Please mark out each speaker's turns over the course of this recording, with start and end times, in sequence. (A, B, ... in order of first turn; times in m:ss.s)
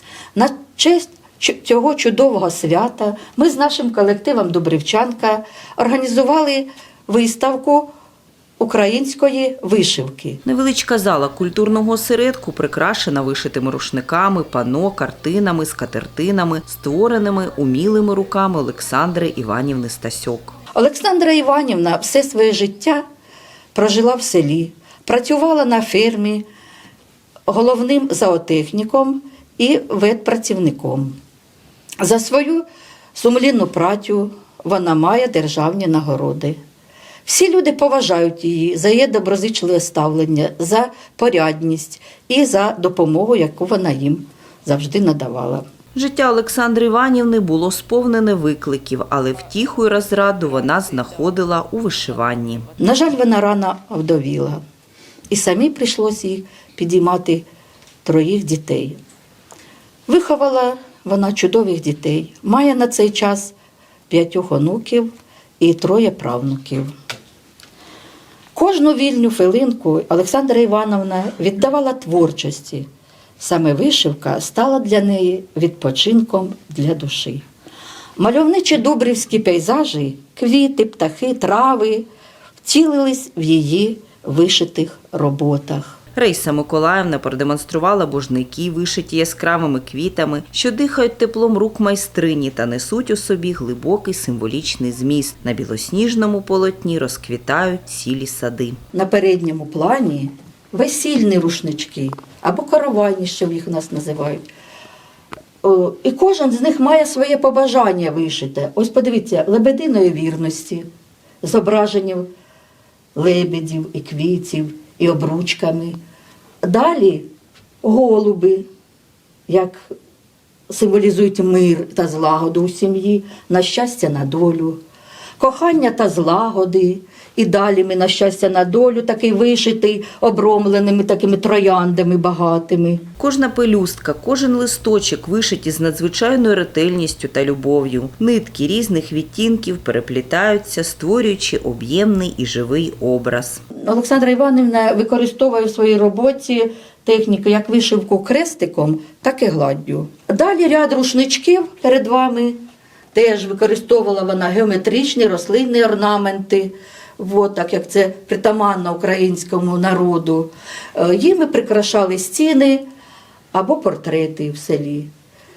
0:00.3-0:07.9 A
0:08.6-0:10.4 A
0:10.4-0:20.6 B
0:20.7-0:23.0 A
0:23.7-0:26.5 A
0:27.5-0:31.2 A
0:32.0-0:36.6 A
0:37.2-0:45.6 A
0:45.9-0:52.7 B
0:52.8-0:54.6 A
0:55.3-0:57.5 A
0:58.0-0:59.0 A
1:00.1-1:03.5 A
1:04.1-1:06.9 A
1:08.5-1:12.9 A
1:13.4-1:17.4 A
1:18.2-1:22.1 A
1:22.6-1:26.0 A
1:26.1-1:38.8 B
1:38.9-1:44.4 A
1:45.6-1:50.9 A
1:51.4-1:52.3 A
1:53.1-1:56.0 A
1:56.6-1:57.3 A
1:57.8-1:58.7 A
1:59.5-1:59.9 A
2:00.7-2:04.8 A
2:05.4-2:13.0 A
2:13.2-2:23.6 B
2:23.8-2:32.6 A
2:33.1-2:42.8 A
2:43.5-2:45.1 A